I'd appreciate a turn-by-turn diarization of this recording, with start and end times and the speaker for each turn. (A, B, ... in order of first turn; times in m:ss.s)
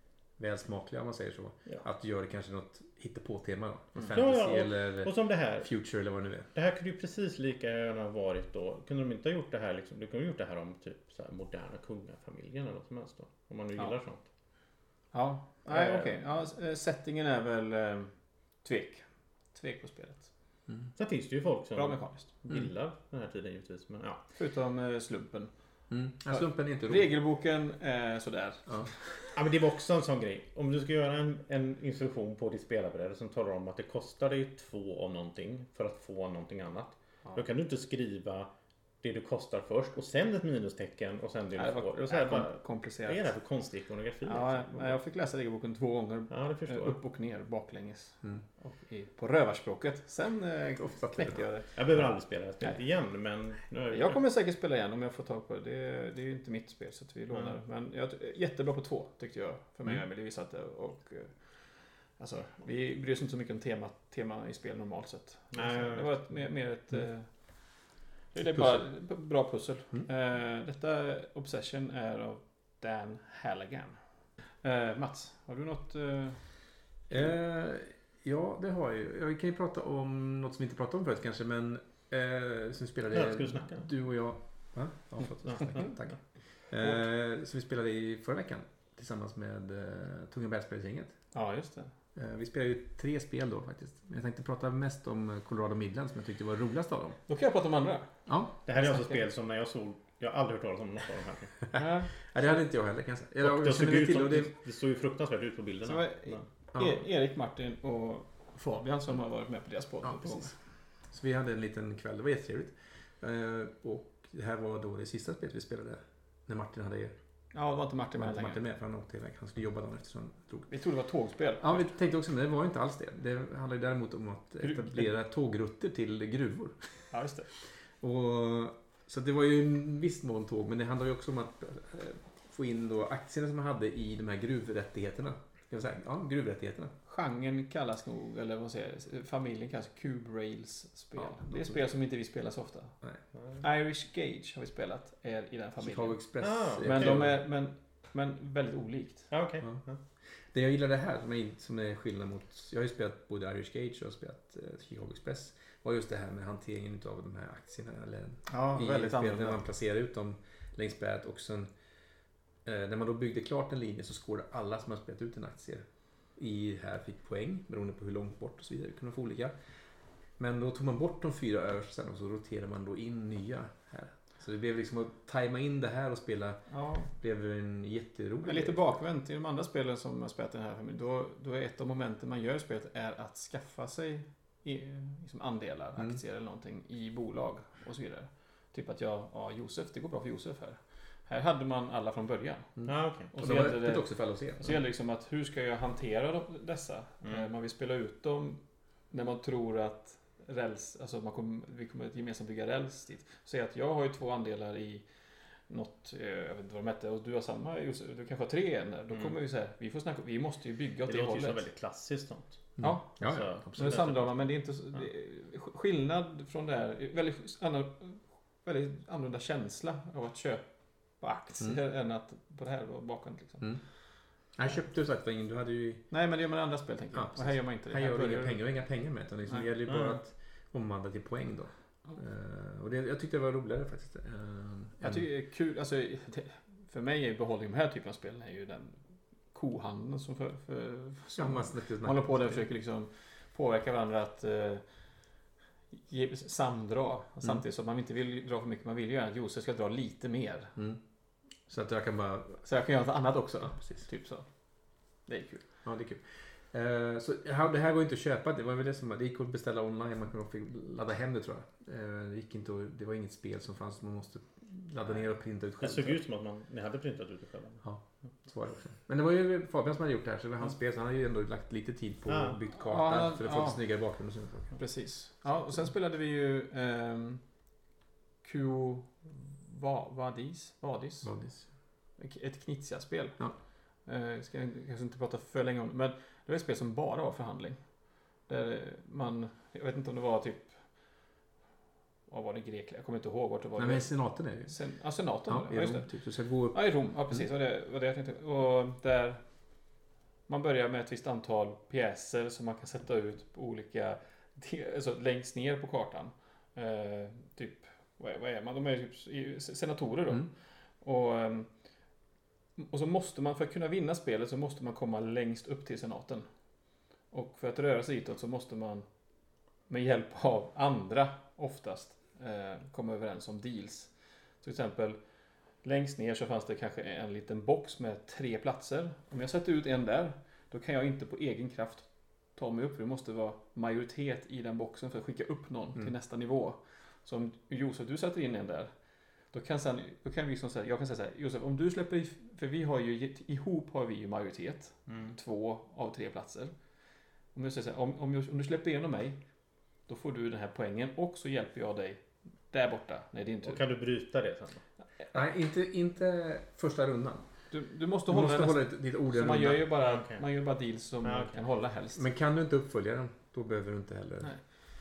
0:00.4-0:06.5 A
0:04.0-0:05.7 B
0:06.5-0:14.2 B
0:15.1-0:18.1 C
0:15.7-0:16.2 B
0:18.6-0:20.3 C
0:21.0-0:24.2 B
0:21.8-0:22.3 C
0:24.4-0:25.5 C
0:25.9-0:27.2 A
0:26.3-0:29.3 C
0:29.4-0:38.5 B
0:39.0-0:45.0 B
0:41.6-0:43.3 C
0:44.2-0:52.0 C
0:46.3-0:47.0 B
0:50.8-0:51.4 A
0:51.8-0:54.2 B
0:53.9-1:01.6 C
1:02.2-1:07.3 C
1:05.5-1:06.1 B
1:08.3-1:14.0 C
1:08.5-1:08.8 A
1:14.6-1:16.4 C
1:17.1-1:31.2 A
1:23.1-1:23.9 B
1:31.3-1:31.9 C
1:32.2-1:37.2 A
1:37.3-1:38.1 C
1:38.3-1:38.5 A
1:38.7-1:41.5 B
1:38.8-1:39.2 C
1:41.7-1:44.5 A
1:41.8-1:42.3 C
1:43.4-1:46.4 B
1:45.8-1:50.6 C
1:46.7-1:47.0 A
1:50.0-1:50.5 A
1:51.1-1:57.2 A
1:57.5-1:58.6 C
1:58.2-2:00.7 A
2:00.7-2:01.8 C
2:01.6-2:07.1 A
2:04.6-2:05.0 C
2:07.1-2:07.5 C
2:08.0-2:16.9 A
2:17.1-2:23.0 C
2:21.2-2:21.8 A
2:23.6-2:26.2 C
2:25.8-2:27.4 A
2:26.4-2:27.2 B
2:26.8-2:29.3 C
2:29.3-2:30.0 B
2:30.5-2:41.7 A
2:38.5-2:39.6 C
2:42.6-2:49.6 A
2:50.4-2:56.6 A
2:56.7-2:57.1 C
2:57.2-2:58.8 A
2:58.4-3:18.6 C
3:12.8-3:14.8 A
3:12.8-3:13.3 B
3:19.1-3:25.0 C
3:25.7-3:31.6 C
3:31.1-3:32.6 B
3:32.8-3:33.9 A
3:32.8-3:40.6 C
3:33.2-3:34.5 B
3:41.2-3:43.7 C
3:44.6-3:46.0 A
3:46.1-3:48.6 C
3:47.1-3:55.2 A
3:49.9-3:50.2 B
3:55.0-3:59.0 C
3:59.5-4:04.8 C
4:01.4-4:02.6 A
4:06.1-4:10.8 C
4:11.7-4:12.6 A
4:12.6-4:14.5 C
4:13.7-4:14.0 A
4:15.3-4:15.6 C
4:15.8-4:26.2 A
4:25.8-4:27.8 B
4:27.8-4:34.8 A
4:32.3-4:32.6 B
4:32.8-4:33.8 C
4:34.8-4:37.4 C
4:38.4-4:41.4 C
4:41.2-4:41.6 A
4:42.2-4:43.4 C
4:44.1-4:47.8 C
4:48.5-4:50.8 C
4:52.3-4:54.1 C
4:53.8-4:54.8 A
4:54.7-4:56.1 C
4:55.5-4:56.8 A
4:56.7-4:59.4 C
5:00.5-5:11.7 C
5:12.8-5:16.5 C
5:17.3-5:19.1 C
5:19.9-5:24.1 C
5:24.6-5:25.2 C
5:25.8-5:38.9 C
5:39.5-5:46.7 C
5:45.1-5:45.3 B
5:47.5-5:49.4 C
5:50.1-5:53.8 C
5:53.6-5:54.8 B
5:55.3-5:57.5 A
5:57.7-6:02.2 C
5:58.3-5:59.8 A
6:00.0-6:00.4 B
6:01.2-6:01.6 B
6:02.2-6:04.5 A